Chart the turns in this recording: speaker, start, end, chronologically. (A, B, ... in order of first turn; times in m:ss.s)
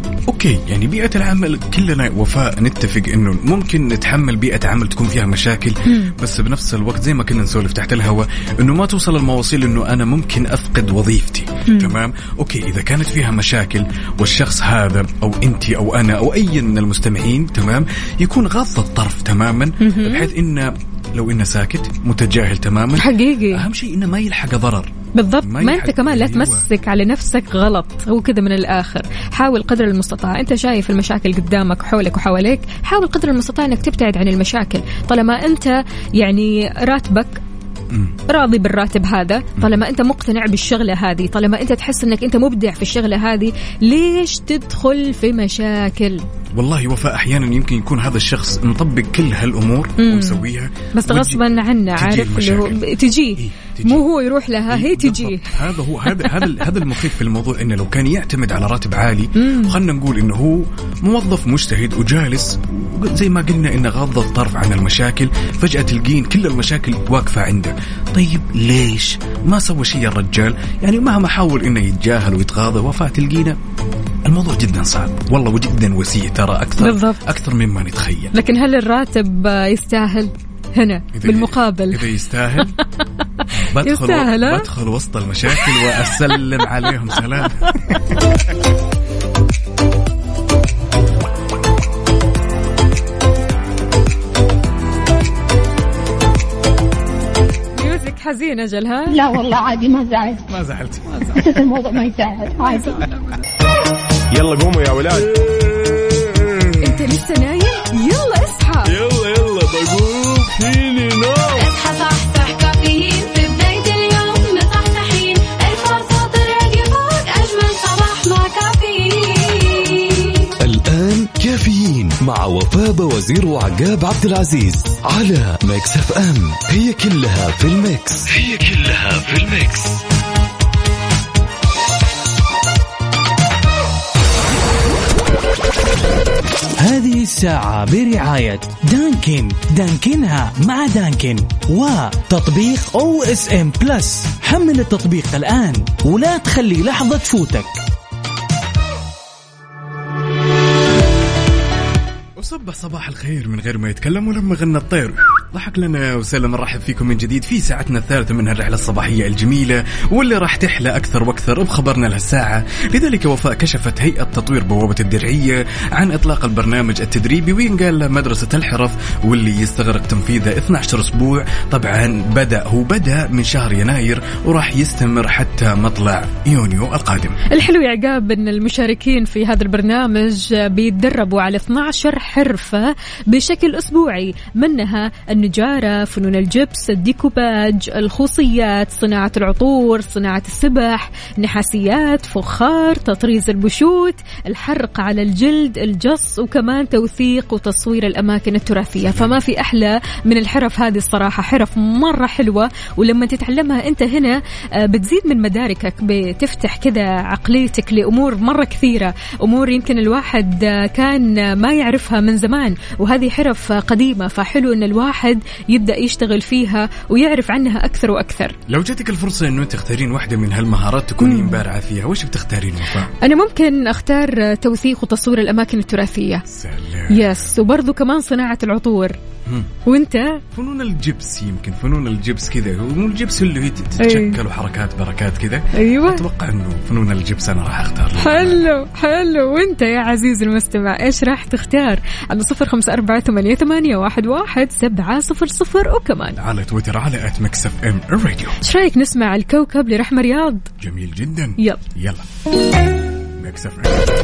0:00.3-0:26.7 A
0:05.9-0:06.1 B
0:11.7-0:11.9 B
0:19.8-0:20.3 B
0:23.0-0:23.6 B
0:25.1-0:37.4 B
0:37.9-0:38.2 A
0:38.3-0:46.2 B
0:39.6-0:39.8 A
0:46.5-0:51.4 A
0:50.0-0:50.4 B
0:50.9-0:55.5 B
0:51.9-0:54.1 A
0:54.6-1:13.6 A
0:56.2-0:56.6 B
0:59.4-0:59.7 B
1:14.2-1:18.4 A
1:16.8-1:17.2 B
1:18.3-1:22.0 B
1:21.1-1:22.7 A
1:23.4-1:24.6 B
1:23.5-1:28.4 A
1:25.6-1:25.8 B
1:37.8-1:39.2 B
1:39.1-1:40.4 C
1:40.5-1:41.4 A
1:41.1-1:41.4 B
1:41.3-1:43.0 C
1:42.6-1:43.4 B
1:44.3-1:47.0 D
1:46.8-1:48.9 B
1:48.9-1:51.7 D
1:51.5-2:00.5 B
2:00.6-2:10.0 E
2:16.8-2:27.8 F
2:32.4-2:57.4 A
2:57.5-3:38.6 B
3:19.0-3:19.4 A
3:38.7-3:43.1 A
3:41.2-3:41.6 B
3:43.2-3:46.4 B
3:46.4-3:47.6 A
3:47.1-3:49.2 B
3:49.4-3:49.7 A
3:49.8-3:50.4 B
3:50.5-3:58.6 A
3:54.0-3:54.4 B
3:55.7-3:56.2 B
3:58.2-4:06.4 B
4:06.4-4:08.6 A
4:08.6-4:10.7 B
4:10.8-4:12.2 A
4:13.4-4:14.1 A